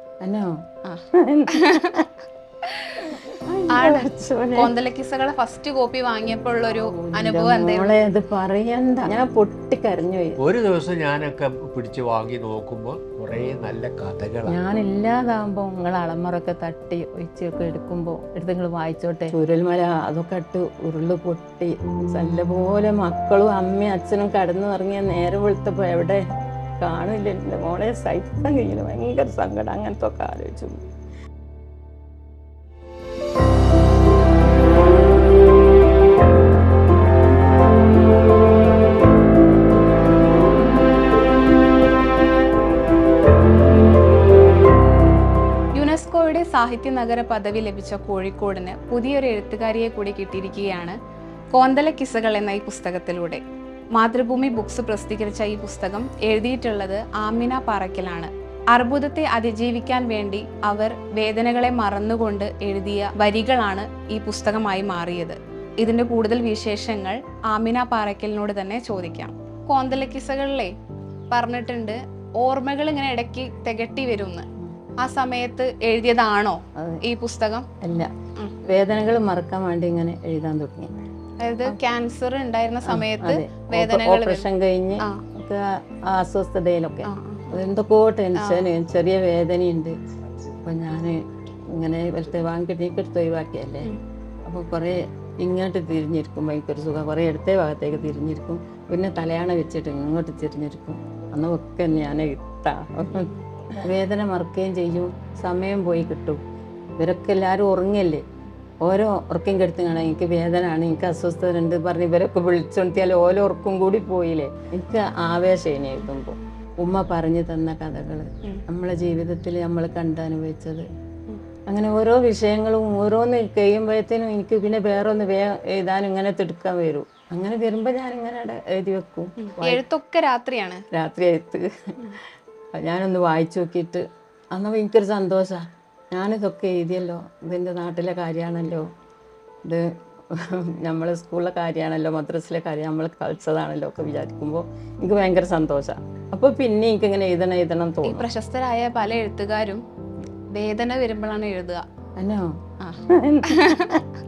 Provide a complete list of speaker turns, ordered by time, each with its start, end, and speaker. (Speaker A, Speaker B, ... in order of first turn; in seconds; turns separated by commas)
Speaker A: 0.2-2.1, Speaker B: 0.8-2.0, Speaker B: 2.6-3.0, Speaker A: 3.0-4.7, Speaker B: 3.7-7.9, Speaker A: 6.9-10.4, Speaker C: 10.4-14.6, Speaker A: 14.5-26.2, Speaker A: 26.8-30.8, Speaker B: 45.7-51.0, Speaker B: 51.5-53.4, Speaker B: 53.9-70.7, Speaker B: 71.3-74.5, Speaker B: 75.0-77.7, Speaker A: 76.7-77.0, Speaker A: 77.8-78.1, Speaker B: 78.4-78.7, Speaker A: 78.6-80.9, Speaker B: 81.4-84.5, Speaker A: 82.8-90.0, Speaker B: 87.0-87.7, Speaker B: 88.4-88.7, Speaker A: 90.6-93.9, Speaker A: 94.4-106.4, Speaker B: 103.1-103.4, Speaker A: 107.0-108.2, Speaker A: 108.8-120.9, Speaker A: 121.7-129.8, Speaker B: 129.4-130.8, Speaker A: 130.9-132.2, Speaker A: 132.7-138.9, Speaker A: 139.6-148.2, Speaker B: 148.1-149.8, Speaker B: 150.5-151.8, Speaker A: 152.2-154.0, Speaker B: 152.8-153.9